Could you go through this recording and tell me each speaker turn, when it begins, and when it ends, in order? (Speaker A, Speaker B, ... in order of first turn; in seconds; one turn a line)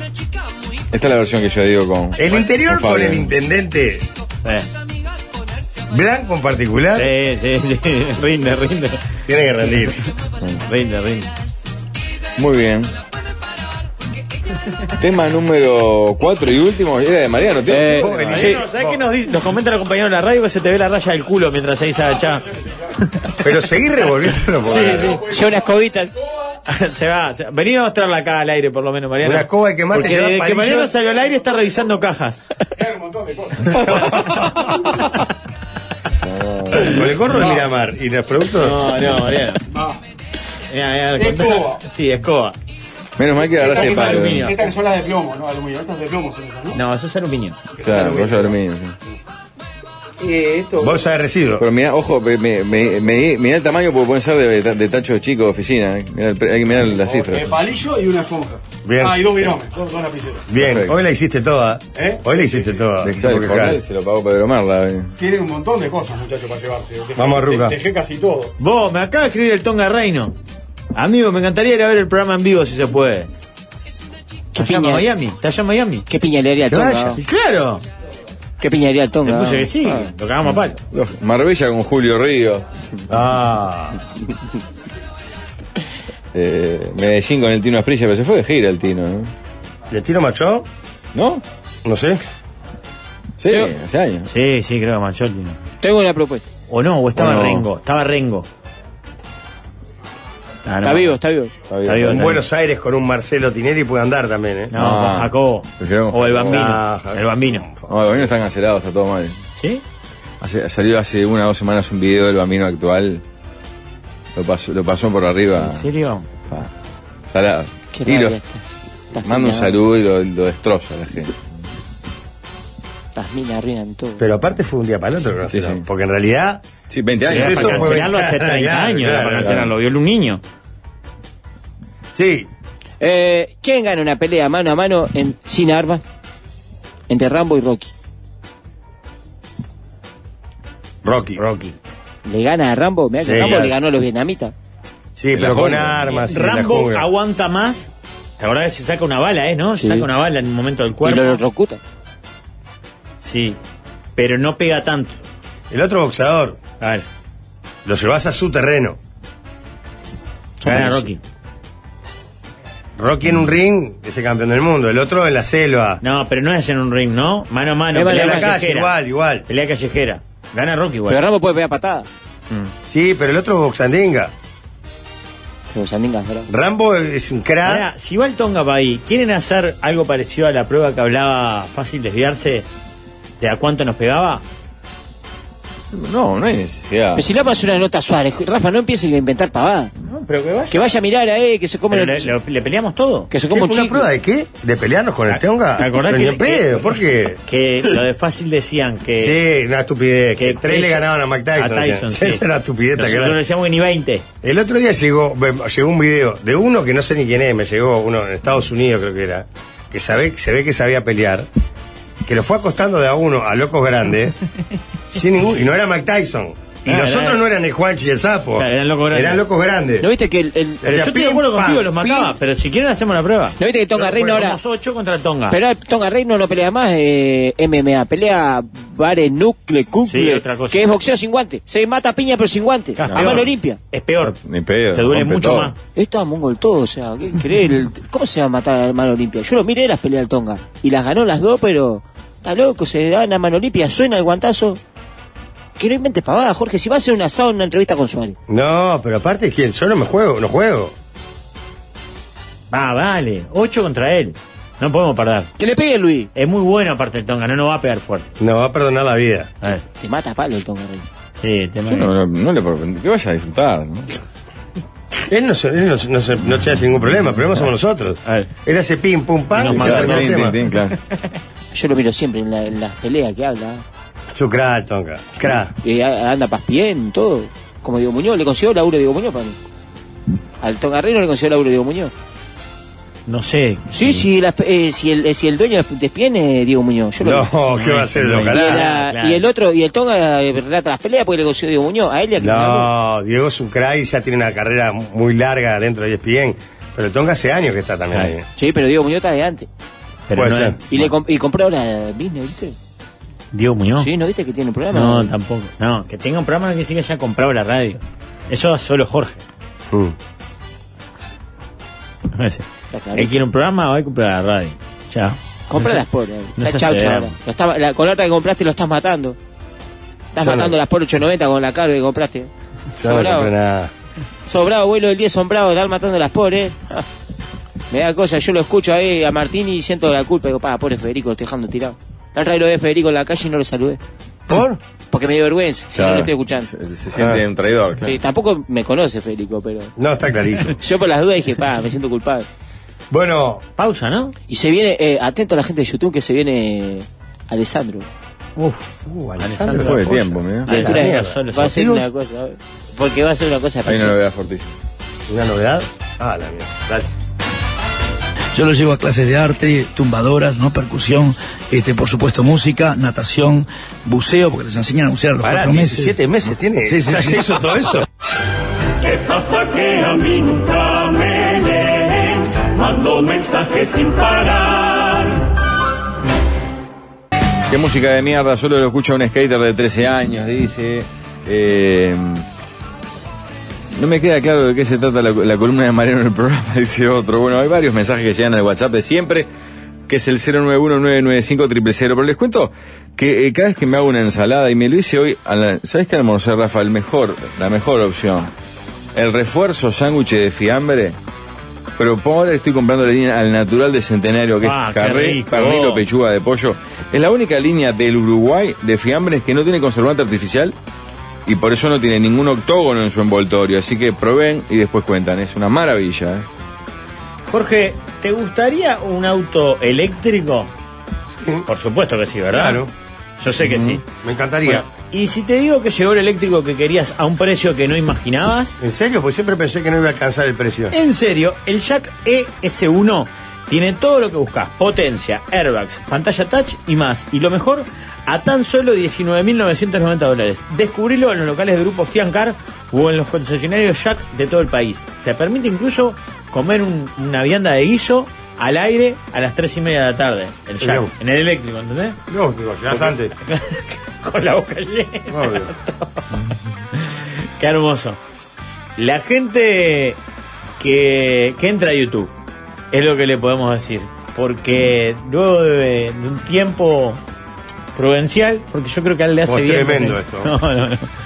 Speaker A: 0.9-3.2
Speaker B: 2.1-4.1
Speaker C: 4.4-4.7
Speaker B: 5.9-7.1
Speaker C: 6.9-9.2
Speaker B: 9.2-10.0
Speaker C: 10.6-11.3
Speaker A: 12.4-12.9
Speaker A: 15.0-18.0
Speaker D: 17.7-18.1
Speaker B: 17.8-19.0
Speaker C: 18.2-22.4
Speaker C: 23.0-23.4
Speaker B: 23.4-25.2
Speaker C: 24.6-25.2
Speaker E: 24.7-25.5
Speaker D: 25.2-26.1
Speaker C: 26.7-32.4
Speaker B: 29.2-30.9
Speaker E: 32.8-33.8
Speaker B: 33.9-34.5
Speaker A: 36.2-37.0
Speaker B: 36.8-38.9
Speaker C: 38.5-39.6
Speaker E: 39.7-40.0
Speaker C: 40.7-42.5
Speaker E: 41.1-41.8
Speaker A: 43.2-44.4
Speaker E: 43.5-46.8
Speaker C: 43.6-44.6
Speaker C: 46.7-47.6
Speaker E: 47.8-48.6
Speaker A: 47.8-48.9
Speaker E: 50.2-51.0
Speaker B: 50.8-51.6
Speaker A: 51.6-57.5
Speaker E: 56.8-60.5
Speaker B: 58.8-59.5
Speaker B: 60.5-63.8
Speaker A: 60.7-60.9
Speaker E: 62.0-62.8
Speaker A: 63.0-65.1
Speaker E: 65.2-68.5
Speaker B: 67.1-67.8
Speaker C: 68.6-70.3
Speaker C: 70.9-73.3
Speaker D: 74.5-75.1
Speaker C: 74.5-76.0
Speaker D: 76.1-77.2
Speaker B: 76.7-77.2
Speaker C: 77.2-77.8
Speaker D: 78.6-80.1
Speaker C: 79.2-80.8
Speaker A: 80.9-82.6
Speaker B: 83.1-84.0
Speaker A: 86.3-89.3
Speaker B: 89.9-90.7
Speaker A: 91.1-91.4
Speaker B: 91.8-92.2
Speaker A: 93.4-94.3
Speaker D: 93.5-93.7
Speaker C: 94.2-95.6
Speaker D: 95.8-96.5
Speaker C: 96.7-98.5
Speaker A: 97.2-97.6
Speaker C: 100.7-101.2
Speaker D: 100.8-101.5
Speaker A: 101.7-102.2
Speaker C: 101.8-102.4
Speaker B: 102.0-104.7
Speaker C: 104.7-107.7
Speaker A: 104.8-105.3
Speaker A: 105.8-106.5
Speaker B: 106.4-108.3
Speaker A: 107.9-109.3
Speaker C: 109.6-109.8
Speaker A: 110.4-113.2
Speaker A: 114.4-115.8
Speaker C: 115.5-116.3
Speaker A: 117.3-118.3
Speaker D: 117.9-119.8
Speaker A: 119.2-121.3
Speaker D: 123.1-124.2
Speaker B: 124.2-126.6
Speaker A: 125.5-125.8
Speaker A: 126.9-127.9
Speaker B: 127.2-129.6
Speaker C: 127.3-130.4
Speaker B: 132.1-132.5
Speaker D: 133.0-136.0
Speaker D: 137.1-137.9
Speaker B: 141.0-141.4
Speaker C: 141.3-141.8
Speaker D: 142.2-144.5
Speaker B: 143.2-143.7
Speaker C: 143.3-143.7
Speaker B: 145.2-147.1
Speaker A: 145.3-146.2
Speaker C: 146.3-151.4
Speaker D: 149.8-150.1
Speaker D: 151.0-151.8
Speaker C: 153.2-153.6
Speaker C: 154.2-155.2
Speaker B: 155.7-156.6
Speaker C: 156.8-157.1
Speaker B: 157.8-159.0
Speaker D: 160.6-161.1
Speaker C: 160.6-161.2
Speaker B: 163.0-166.0
Speaker C: 166.0-168.9
Speaker D: 167.9-168.6
Speaker B: 168.0-169.4
Speaker C: 169.5-171.2
Speaker D: 171.1-172.1
Speaker B: 172.9-174.3
Speaker D: 175.7-176.5
Speaker B: 176.5-177.9
Speaker C: 177.6-182.7
Speaker C: 183.4-184.4
Speaker A: 185.9-187.2
Speaker D: 187.1-189.9
Speaker C: 190.0-191.0
Speaker D: 190.7-192.3
Speaker C: 191.9-193.3
Speaker D: 193.3-194.1
Speaker B: 193.5-197.4
Speaker C: 195.3-199.4
Speaker B: 199.2-203.4
Speaker C: 200.4-204.2
Speaker B: 204.4-211.5
Speaker B: 212.2-214.3
Speaker B: 215.1-220.1
Speaker C: 216.9-217.4
Speaker C: 218.6-219.4
Speaker D: 220.0-220.9
Speaker B: 220.8-222.3
Speaker C: 220.8-225.6
Speaker D: 223.6-224.6
Speaker D: 225.5-233.8
Speaker C: 230.1-231.0
Speaker C: 232.9-234.4
Speaker A: 233.1-233.4
Speaker A: 234.4-235.7
Speaker C: 234.9-235.7
Speaker D: 235.9-244.8
Speaker D: 245.8-248.3
Speaker B: 248.5-250.9
Speaker C: 252.7-255.5
Speaker D: 255.6-256.3
Speaker C: 256.3-258.3
Speaker B: 258.4-259.5
Speaker D: 259.8-261.1
Speaker C: 261.4-262.1
Speaker A: 261.9-264.2
Speaker B: 265.3-270.6
Speaker C: 268.2-268.5
Speaker C: 269.6-270.5
Speaker A: 269.7-270.9
Speaker D: 271.7-273.8
Speaker B: 274.3-275.7
Speaker D: 275.8-279.6
Speaker D: 280.6-282.1
Speaker C: 283.3-284.2
Speaker D: 283.9-287.5
Speaker B: 287.2-288.8
Speaker C: 287.7-289.4
Speaker D: 288.3-292.9
Speaker B: 292.4-298.4
Speaker D: 298.6-299.7
Speaker C: 300.3-301.1
Speaker B: 300.3-300.8
Speaker D: 300.9-302.7
Speaker C: 303.5-304.1
Speaker D: 304.0-305.3
Speaker C: 304.9-309.4
Speaker C: 312.3-316.0
Speaker D: 312.9-313.4
Speaker D: 315.7-319.4
Speaker C: 316.6-317.3
Speaker D: 320.3-323.5
Speaker B: 320.4-320.7
Speaker B: 323.0-323.9
Speaker D: 324.5-327.1
Speaker D: 327.9-334.0
Speaker B: 334.5-334.8
Speaker D: 335.1-336.7
Speaker A: 335.9-338.1
Speaker B: 337.1-337.4
Speaker D: 338.0-339.9
Speaker B: 339.9-340.8
Speaker D: 340.8-342.5
Speaker B: 343.1-343.6
Speaker C: 343.8-344.3
Speaker D: 344.5-348.1
Speaker C: 348.6-351.8
Speaker B: 349.1-352.0
Speaker A: 349.7-350.7
Speaker D: 350.7-354.2
Speaker A: 353.9-354.7
Speaker B: 355.3-357.1
Speaker F: 358.5-366.2
Speaker B: 365.4-368.0
Speaker G: 369.0-375.5
Speaker A: 377.7-382.4
Speaker A: 383.9-389.5
Speaker A: 390.1-398.5
Speaker A: 399.1-401.2
Speaker A: 402.0-410.7
Speaker C: 404.6-406.1
Speaker A: 411.4-416.5
Speaker C: 417.5-420.7
Speaker B: 421.4-421.6
Speaker C: 421.7-422.8
Speaker B: 422.5-422.9
Speaker C: 423.4-424.0
Speaker A: 423.5-424.0
Speaker B: 424.2-424.9
Speaker C: 424.6-428.8
Speaker B: 428.8-430.9
Speaker C: 430.9-452.2
Speaker B: 450.8-451.1
Speaker B: 452.3-453.3
Speaker C: 452.9-456.2
Speaker B: 455.3-455.7
Speaker C: 456.9-458.2
Speaker C: 459.0-460.2
Speaker C: 460.8-462.3
Speaker C: 462.9-467.2
Speaker C: 467.9-471.1
Speaker B: 469.4-470.5